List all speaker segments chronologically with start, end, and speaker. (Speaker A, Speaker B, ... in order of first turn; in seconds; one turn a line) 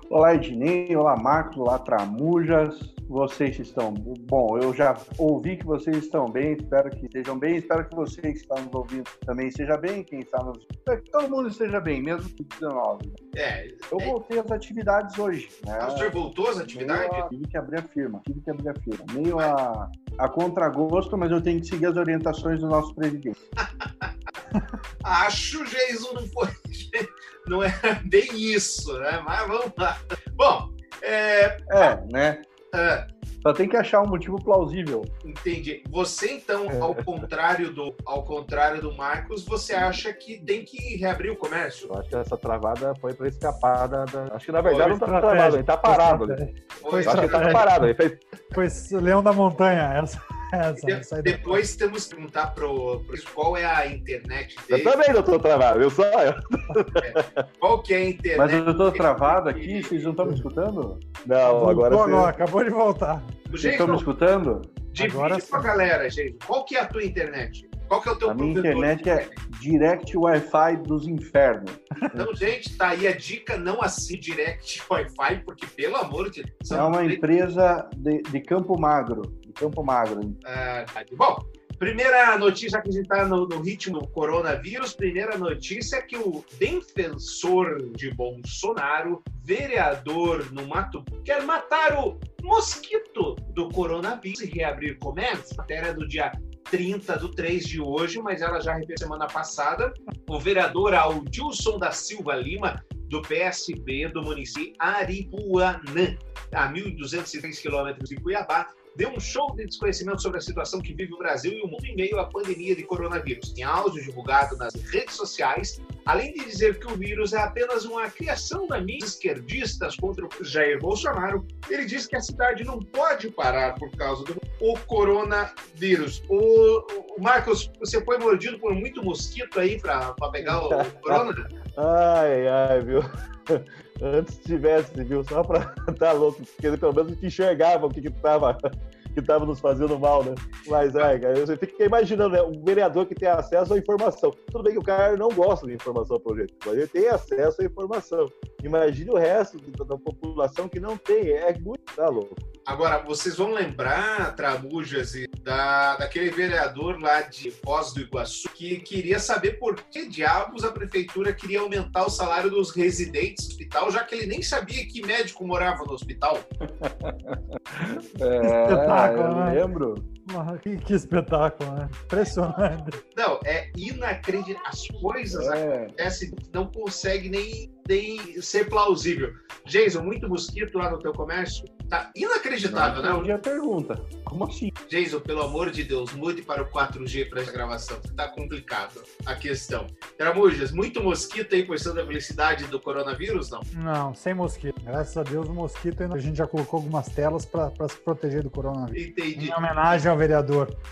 Speaker A: 0.1-13.2
Speaker B: 13.3-14.1
Speaker A: 13.9-16.1
Speaker B: 15.8-17.3
Speaker A: 16.7-23.3
Speaker B: 23.6-24.1
Speaker B: 25.0-31.9
Speaker A: 31.7-32.5
Speaker B: 32.7-33.1
Speaker A: 33.4-35.1
Speaker B: 35.2-41.9
Speaker C: 41.9-46.4
Speaker B: 44.6-45.0
Speaker D: 45.0-47.7
Speaker B: 46.8-47.7
Speaker C: 47.0-48.2
Speaker D: 48.5-51.6
Speaker B: 50.8-54.9
Speaker C: 54.7-57.4
Speaker B: 57.0-59.9
Speaker A: 58.4-61.0
Speaker C: 61.2-62.3
Speaker D: 61.5-63.5
Speaker B: 63.5-64.0
Speaker A: 63.6-64.8
Speaker B: 64.9-69.3
Speaker D: 65.0-65.8
Speaker A: 68.2-72.2
Speaker B: 72.1-77.2
Speaker A: 76.7-80.4
Speaker B: 80.4-131.4
Speaker C: 130.4-138.6
Speaker C: 139.1-152.4
Speaker B: 152.7-166.4
Speaker A: 166.8-170.1
Speaker D: 168.4-169.6
Speaker D: 170.2-173.0
Speaker B: 173.1-183.3
Speaker A: 175.3-175.9
Speaker A: 182.6-184.7
Speaker B: 184.9-193.7
Speaker D: 193.7-200.7
Speaker B: 198.9-199.6